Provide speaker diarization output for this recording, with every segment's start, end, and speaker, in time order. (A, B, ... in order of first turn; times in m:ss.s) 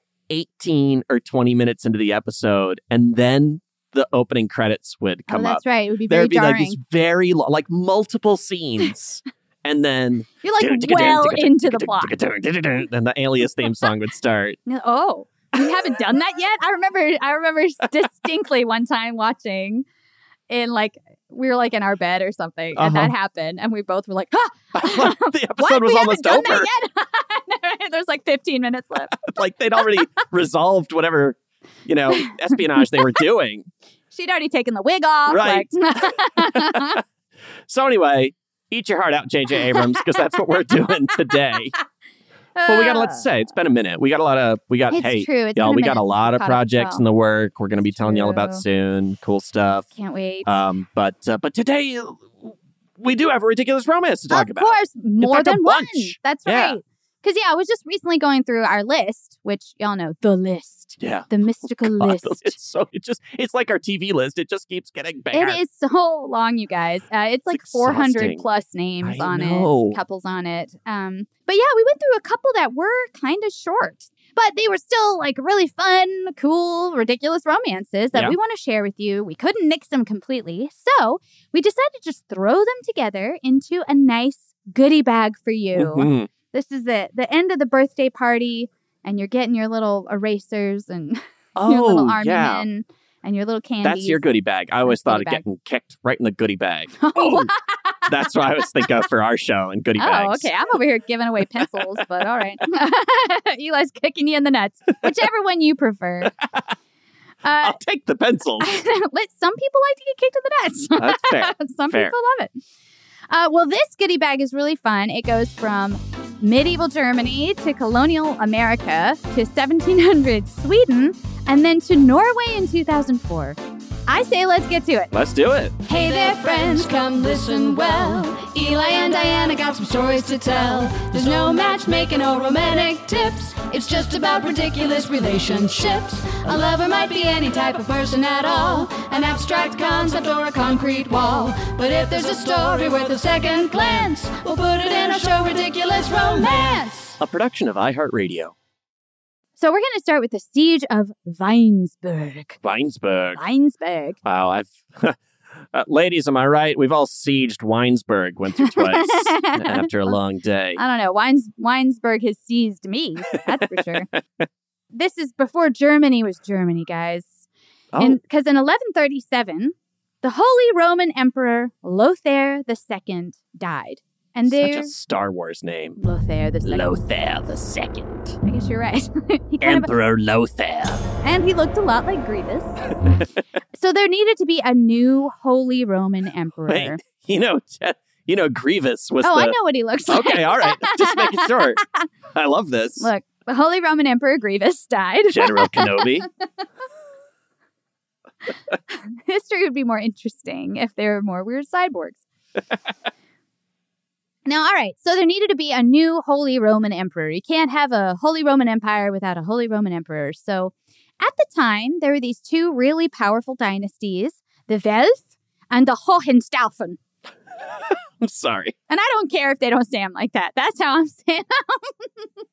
0:00.3-0:14.6 A
0:05.3-0:06.8 B
0:10.4-0:12.1 B
0:14.7-0:19.8 B
0:20.5-0:29.3 B
0:22.8-0:23.1 A
0:24.7-0:26.7 A
0:29.1-0:33.7 A
0:32.2-0:33.1 B
0:34.1-0:37.0 B
0:35.3-0:37.0 A
0:37.7-0:41.7 A
0:39.7-0:40.1 B
0:42.6-0:43.2 B
0:42.7-0:49.9 A
0:44.9-0:47.0 B
0:47.8-0:48.6 B
0:49.9-0:50.5 B
0:50.4-0:56.8 A
0:54.3-1:02.6 B
1:01.0-1:05.6 A
1:05.3-1:34.2 B
1:07.5-1:08.4 A
1:09.0-1:10.0 A
1:25.7-1:26.3 A
1:31.6-1:32.6 A
1:33.8-1:37.5 A
1:34.8-1:35.4 B
1:37.0-1:38.0 B
1:38.1-1:40.5 A
1:40.0-1:46.3 B
1:47.4-1:47.8 B
1:47.6-1:48.7 A
1:48.6-1:52.5 B
1:51.0-1:52.1 A
1:53.3-2:05.1 B
2:05.1-2:05.7 A
2:05.9-2:27.2 C
2:05.9-2:06.9 B
2:27.2-2:28.5 A
2:29.6-2:32.6 B
2:32.6-2:33.4 A
2:33.4-2:34.2 B
2:34.2-2:35.2 A
2:35.7-2:40.8 A
2:38.6-2:40.2 B
2:40.8-2:44.1 B
2:44.9-2:47.5 B
2:47.9-2:48.2 A
2:48.0-2:54.9 B
2:54.5-2:56.0 A
2:56.0-2:56.9 B
2:56.6-2:58.3 A
2:58.4-2:59.9 B
2:59.6-3:01.0 A
3:01.2-3:02.8 B
3:03.7-3:07.0 B
3:06.7-3:09.5 A
3:09.2-3:12.0 B
3:10.1-3:11.8 A
3:12.3-3:13.1 A
3:13.0-3:16.1 B
3:15.3-3:16.2 A
3:19.1-3:22.2 B
3:24.4-3:37.0 B
3:38.2-3:38.7 A
3:38.9-3:42.1 B